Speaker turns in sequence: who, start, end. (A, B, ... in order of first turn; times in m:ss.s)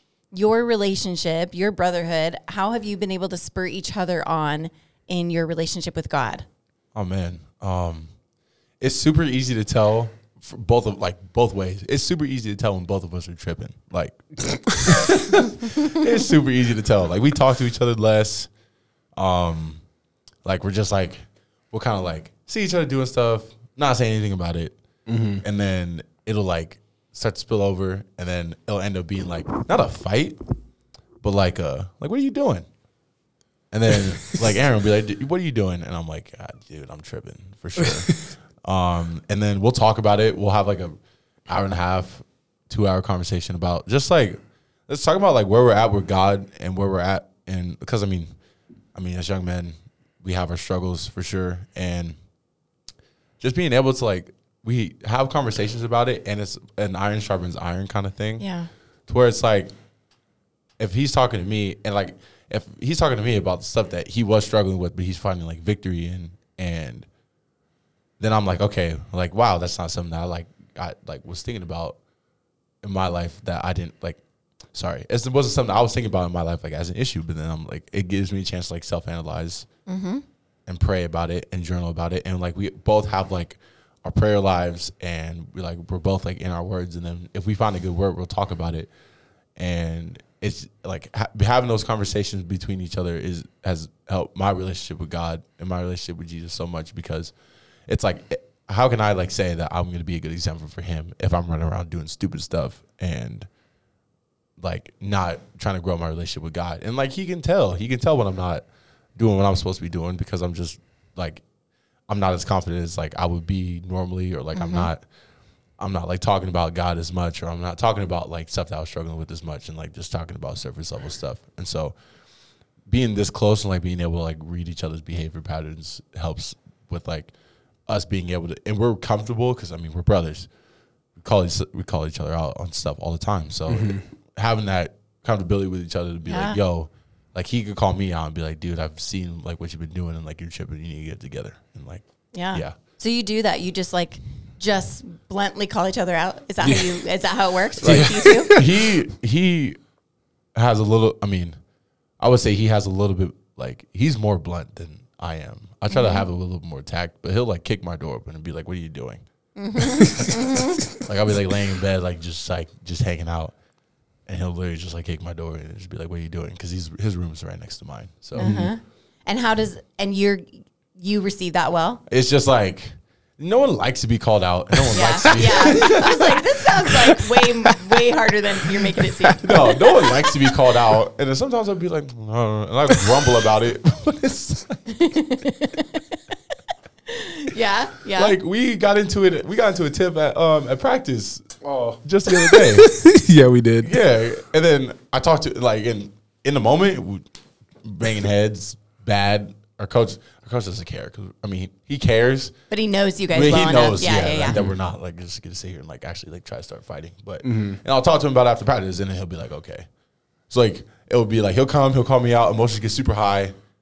0:00.3-0:06.4 A
0:06.9-0:08.1 B
0:08.8-0:18.5 B
0:19.1-0:19.8 B
0:20.4-0:24.8 B
0:25.1-0:25.4 C
0:25.4-0:30.4 B
0:31.2-0:32.6 B
0:33.7-0:41.0 B
0:41.5-0:48.3 B
0:48.9-0:52.2 B
0:53.4-0:58.5 B
0:58.4-0:58.7 A
0:59.0-0:59.7 B
1:00.8-1:07.1 B
1:08.2-1:12.0 B
1:12.8-1:14.2 B
1:14.7-1:19.7 B
1:19.9-1:20.2 A
1:20.6-1:28.9 B
1:29.5-1:37.3 B
1:37.9-1:43.5 B
1:44.6-1:51.4 B
1:52.1-1:55.0 B
1:54.5-1:54.9 A
1:55.8-2:02.0 B
2:02.8-2:07.3 B
2:07.8-2:10.5 B
2:11.2-2:22.7 B
2:13.7-2:14.0 C
2:16.2-2:16.6 A
2:22.3-2:28.5 A
2:26.6-2:27.0 C
2:27.8-2:28.8 C
2:27.8-2:29.8 B
2:30.5-2:31.6 B
2:32.2-2:39.2 B
2:35.9-2:36.2 A
2:39.6-2:40.8 A
2:40.9-2:43.6 B
2:44.2-2:48.6 B
2:48.3-2:52.0 A
2:48.4-2:48.7 C
2:52.1-2:57.1 B
2:54.9-2:59.8 A
2:59.4-3:04.8 B
3:04.9-3:06.0 A
3:07.1-3:08.3 A
3:08.2-3:13.1 B
3:11.6-3:13.9 C
3:13.8-3:17.3 B
3:17.8-3:22.6 B
3:22.7-3:24.6 A
3:23.3-3:29.9 B
3:27.4-3:27.8 C
3:30.5-3:33.5 B